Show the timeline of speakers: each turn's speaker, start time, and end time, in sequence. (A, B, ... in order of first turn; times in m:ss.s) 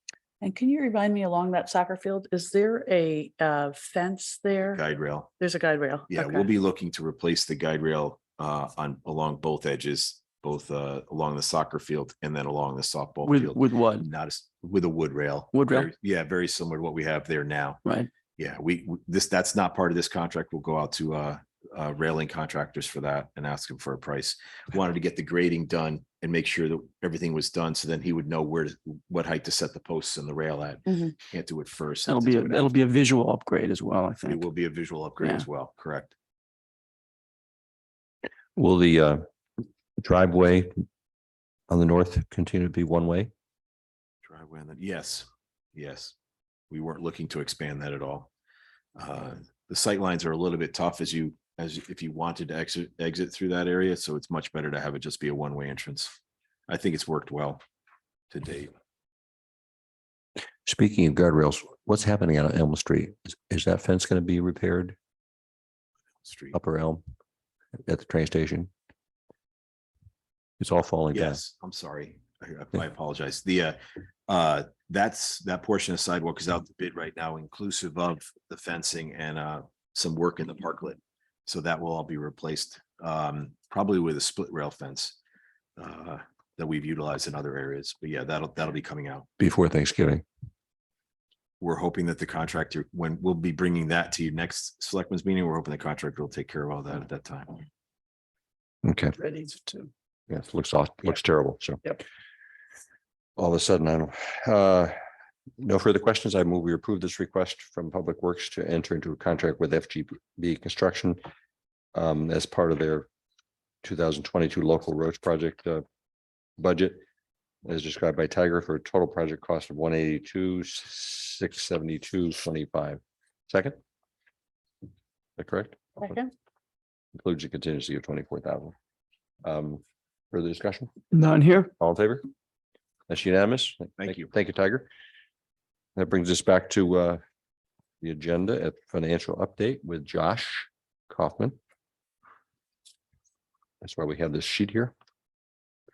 0:00.4-0:04.8 A
0:04.7-0:05.3 B
0:05.4-0:06.5 A
0:06.1-0:17.8 B
0:13.2-0:14.1 C
0:15.5-0:15.9 C
0:18.4-0:32.8 B
0:30.9-0:31.1 A
0:32.1-0:34.4 C
0:34.2-0:36.1 B
0:35.2-0:35.4 C
0:38.6-0:39.2 D
0:40.0-0:40.7 D
0:41.7-0:43.3 D
0:44.2-0:46.1 B
0:46.7-0:48.3 B
0:49.0-0:56.1 B
0:56.7-0:57.6 B
0:58.3-0:58.7 B
1:00.6-1:05.0 D
1:06.2-1:06.6 B
1:06.5-1:07.0 D
1:07.9-1:08.7 D
1:10.6-1:11.4 D
1:11.1-1:25.2 B
1:25.8-1:29.2 B
1:29.4-1:30.2 D
1:31.6-1:37.6 B
1:38.8-1:39.1 D
1:39.2-1:39.9 C
1:40.3-1:41.8 D
1:43.4-1:44.9 D
1:45.6-1:51.2 D
1:51.9-1:53.1 D
1:53.8-1:55.8 D
1:56.6-1:57.0 D
1:57.6-2:03.8 D
2:05.4-2:06.2 D
2:06.0-2:06.3 A
2:07.1-2:08.7 D
2:09.4-2:11.0 D
2:11.1-2:11.7 C
2:11.8-2:12.2 D
2:13.1-2:14.9 D
2:14.0-2:14.3 B
2:16.0-2:17.2 D
2:18.0-2:21.6 D
2:23.8-2:24.9 D